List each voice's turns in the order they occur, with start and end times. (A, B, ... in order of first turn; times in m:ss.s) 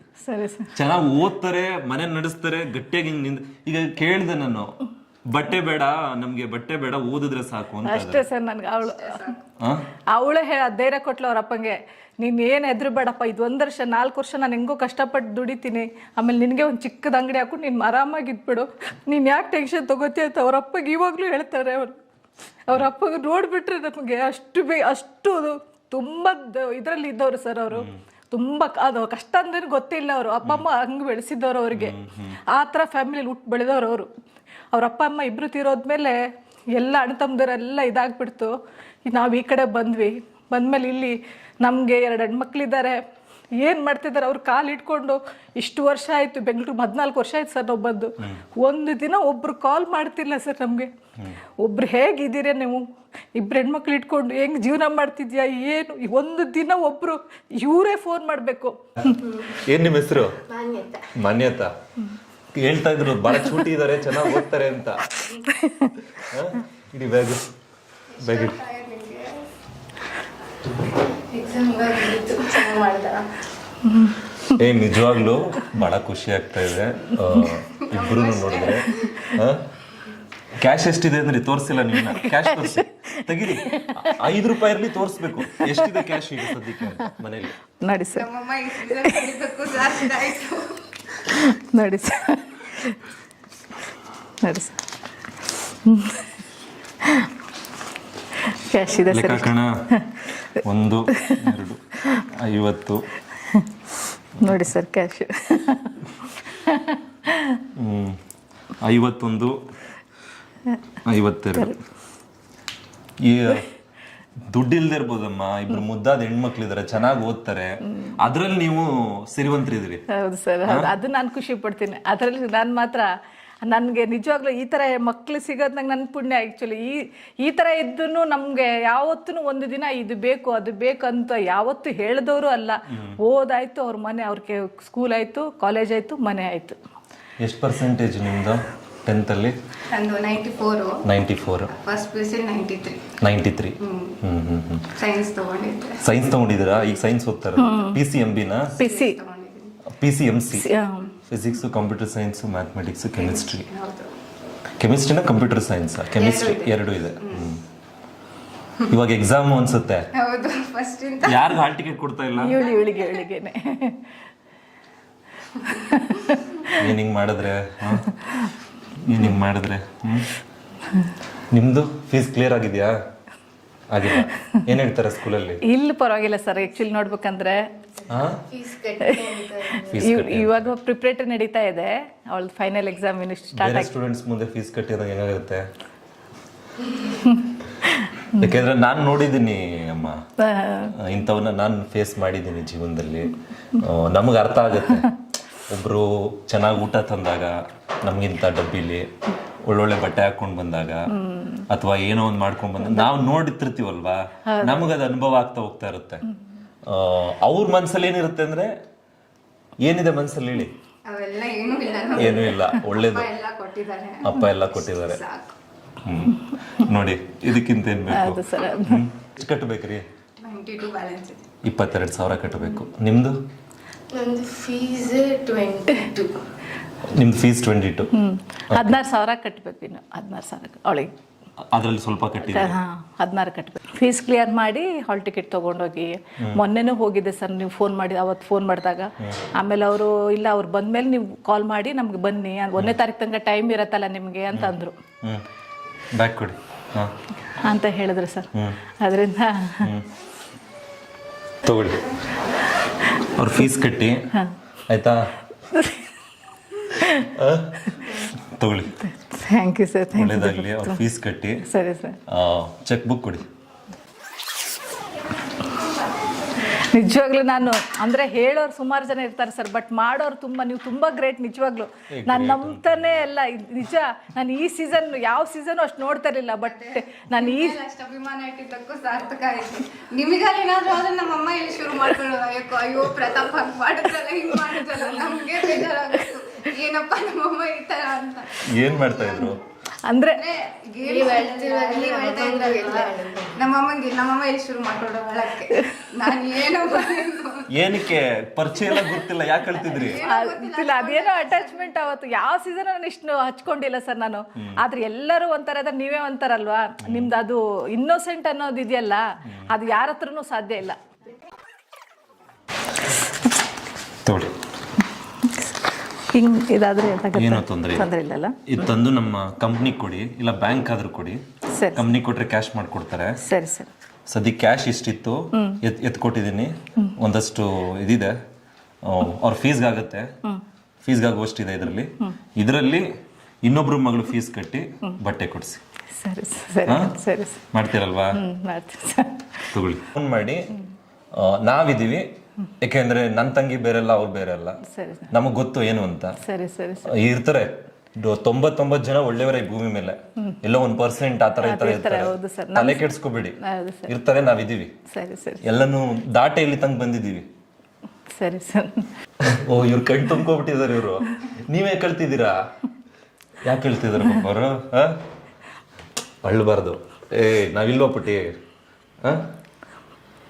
0:00.2-0:00.7 A
0:00.7-0:08.2 B
0:07.8-0:09.4 A
0:09.0-0:09.3 C
0:09.6-0:09.9 B
0:10.1-0:22.0 A
0:22.7-0:34.1 A
0:27.7-0:28.0 B
0:31.7-0:32.4 B
0:34.7-0:36.2 A
0:36.8-0:38.5 A
0:39.1-0:43.0 A
0:43.6-0:50.9 A
0:51.6-0:59.4 A
0:59.4-1:00.5 B
1:00.5-1:01.1 D
1:01.1-1:01.7 B
1:02.5-1:05.4 B
1:05.2-1:06.2 A
1:06.1-1:07.5 B
1:08.1-1:09.5 C
1:08.2-1:08.6 B
1:11.0-1:13.3 C
1:13.8-1:14.6 A
1:14.5-1:19.7 B
1:17.8-1:19.3 C
1:20.5-1:27.6 B
1:22.1-1:24.2 A
1:25.4-1:26.1 A
1:27.8-1:28.3 A
1:28.1-1:31.1 C
1:28.8-1:29.4 A
1:31.2-1:33.0 A
1:34.4-1:34.8 A
1:35.6-1:36.3 A
1:37.0-1:37.3 A
1:38.4-1:40.6 A
1:39.0-1:39.8 B
1:40.5-1:43.0 B
1:41.1-1:41.5 A
1:43.4-1:43.7 A
1:44.4-1:47.6 A
1:47.7-1:48.2 B
1:48.8-1:49.6 B
1:51.0-1:51.8 B
1:53.2-1:53.7 B
1:54.5-2:00.0 B
2:00.1-2:03.1 A
2:00.6-2:00.9 B
2:03.6-2:16.8 A
2:12.9-2:13.2 B
2:17.4-2:19.5 B
2:19.9-2:21.1 C
2:21.0-2:21.7 B
2:21.7-2:23.2 C
2:23.2-2:25.0 B
2:23.8-2:24.2 C
2:24.9-2:26.2 C
2:26.0-2:28.8 B
2:27.6-2:28.0 A
2:28.7-2:29.8 C
2:28.8-2:29.2 A
2:29.8-2:33.7 B
2:30.5-2:31.1 A
2:33.2-2:34.2 C
2:34.8-2:37.6 B
2:36.1-2:37.5 C
2:38.9-2:40.1 B
2:40.1-2:41.6 C
2:41.2-2:42.6 B
2:42.4-2:44.0 A
2:42.6-2:43.2 C
2:45.6-2:46.8 A
2:46.6-2:50.3 B
2:51.5-2:52.9 B
2:53.9-2:55.6 B
2:55.6-2:57.6 A
2:58.1-2:58.4 B
2:58.4-2:59.9 D
2:59.0-3:03.9 A
2:59.8-3:00.7 B
3:03.5-3:05.6 B
3:07.2-3:08.6 A
3:08.3-3:10.2 B
3:10.4-3:10.9 A
3:10.8-3:21.2 B
3:21.1-3:21.6 A
3:21.7-3:26.3 B
3:22.8-3:23.1 A
3:24.5-3:24.9 A
3:26.8-3:28.7 B
3:29.8-3:30.7 B
3:31.1-3:35.6 C
3:32.1-3:33.3 B
3:34.2-3:35.2 B
3:36.0-3:40.0 B
3:38.1-3:39.1 A
3:40.4-3:41.6 C
3:41.6-3:43.4 B
3:44.1-3:46.4 D
3:47.0-3:48.1 B
3:48.1-3:51.1 A
3:48.7-3:49.0 B
3:51.7-3:52.8 B
3:52.4-4:05.0 A
4:04.5-4:05.4 B
4:06.1-4:07.1 B
4:07.6-4:09.9 A
4:08.5-4:08.8 B
4:09.8-4:10.1 B
4:11.6-4:12.1 B
4:13.1-4:14.4 B
4:14.9-4:15.3 B
4:15.7-4:16.2 A
4:16.8-4:17.3 A
4:17.0-4:19.1 B
4:19.0-4:21.0 A
4:20.1-4:21.7 B
4:21.6-4:22.2 A
4:22.3-4:23.4 B
4:26.6-4:37.8 A
4:32.1-4:33.3 B
4:36.7-4:49.5 C
4:48.6-4:49.6 B
4:50.1-4:50.4 A
4:50.3-4:57.9 C
4:51.0-4:53.6 D
4:55.7-4:56.4 A
4:57.7-5:00.2 B
4:59.8-5:01.9 C
5:00.2-5:11.0 A
5:07.0-5:07.3 B
5:14.2-5:14.5 B
5:15.4-5:15.7 A
5:16.2-5:18.9 A
5:17.3-5:18.1 B
5:18.6-5:21.4 B
5:21.7-5:22.1 A
5:21.9-5:23.4 B
5:23.4-5:23.9 A
5:24.3-5:28.4 B
5:25.5-5:25.8 A
5:29.0-5:30.3 B
5:31.0-5:33.1 B
5:33.6-5:35.8 B
5:36.2-5:37.7 A
5:36.8-5:38.4 B
5:38.3-5:39.7 A
5:39.7-5:40.7 B
5:41.3-5:44.8 B
5:44.8-5:45.3 A
5:45.3-5:46.4 B
5:46.4-5:47.2 A
5:47.0-5:54.9 B
5:51.6-5:53.1 A
5:53.6-5:54.1 A
5:55.1-5:55.6 A
5:55.6-5:57.5 B
5:58.4-5:59.1 A
5:59.4-6:02.7 B
6:03.6-6:05.2 B
6:06.4-6:08.6 B
6:09.2-6:09.5 B